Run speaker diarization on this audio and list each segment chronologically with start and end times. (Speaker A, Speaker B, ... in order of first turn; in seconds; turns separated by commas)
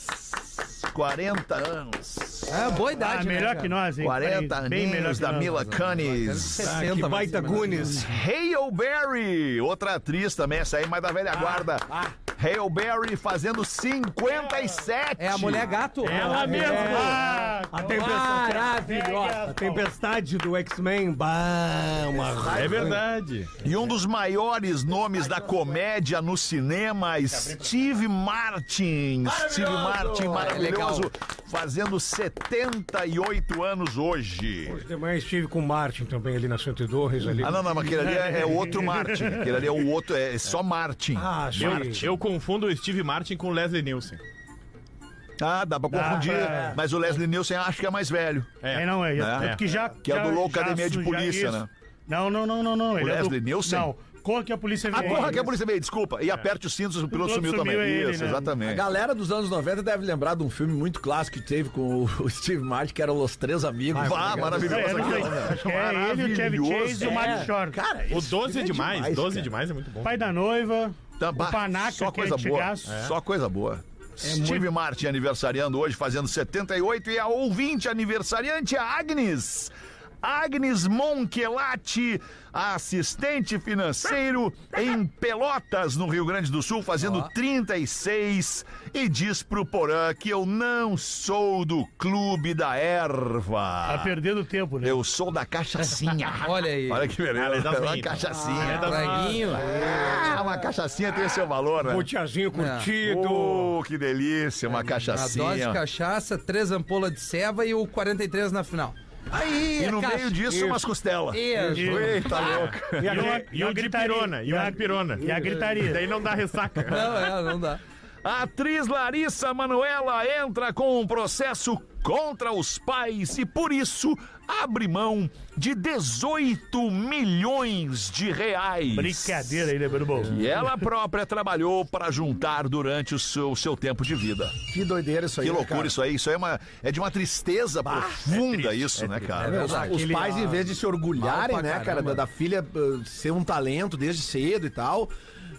Speaker A: 0.9-2.8, Speaker B: 2.5-3.8, Speaker C: 2.9-5.6, Speaker A: 4.0-6.8, Speaker B: 5.5-8.0, Speaker D: 6.5-8.1, Speaker A: 8.0-15.9, Speaker B: 15.2-17.0, Speaker E: 16.0-17.2, Speaker C: 16.1-19.9, Speaker D: 16.3-23.0, Speaker F: 22.1-23.0, Speaker E: 22.5-23.5, Speaker A: 23.6-34.8, Speaker F: 29.2-30.8, Speaker B: 30.3-31.1, Speaker D: 34.6-38.8, Speaker A: 37.4-42.1, Speaker C: 38.0-39.7, Speaker D: 41.1-42.1, Speaker E: 41.5-44.2, Speaker A: 45.4-48.6, Speaker C: 45.9-46.8, Speaker D: 46.4-46.8, Speaker E: 48.6-49.6, Speaker C: 48.7-55.5, Speaker A: 49.1-51.7, Speaker A: 53.0-53.9, Speaker A: 54.9-58.8, Speaker C: 57.1-58.5, Speaker F: 58.6-65.5, Speaker A: 63.9-67.5, Speaker D: 64.0-64.7, Speaker C: 64.5-67.8, Speaker F: 67.0-69.5, Speaker E: 68.1-70.3, Speaker C: 70.0-73.0, Speaker A: 71.2-94.1, Speaker E: 72.8-73.1, Speaker D: 74.3-74.6, Speaker B: 87.0-87.3, Speaker C: 93.8-95.0, Speaker A: 94.8-102.1, Speaker B: 96.4-97.1, Speaker E: 97.3-99.5, Speaker D: 98.3-100.4, Speaker B: 98.6-99.7, Speaker D: 101.8-103.7, Speaker B: 102.5-102.9, Speaker A: 103.0-105.8, Speaker B: 105.0-109.0, Speaker A: 109.3-113.2, Speaker B: 109.5-110.4, Speaker D: 110.5-110.8, Speaker B: 111.3-112.6, Speaker D: 111.5-113.5, Speaker C: 111.7-112.1, Speaker E: 112.5-117.3, Speaker C: 113.1-116.0, Speaker D: 115.2-115.8, Speaker B: 116.9-117.8, Speaker A: 118.2-129.7, Speaker C: 128.9-130.7, Speaker A: 130.2-134.6, Speaker F: 134.7-136.0, Speaker A: 135.4-139.9, Speaker F: 137.8-138.1, Speaker E: 138.3-139.4, Speaker B: 139.4-140.5, Speaker F: 139.4-145.1, Speaker D: 139.8-140.7, Speaker B: 141.1-142.2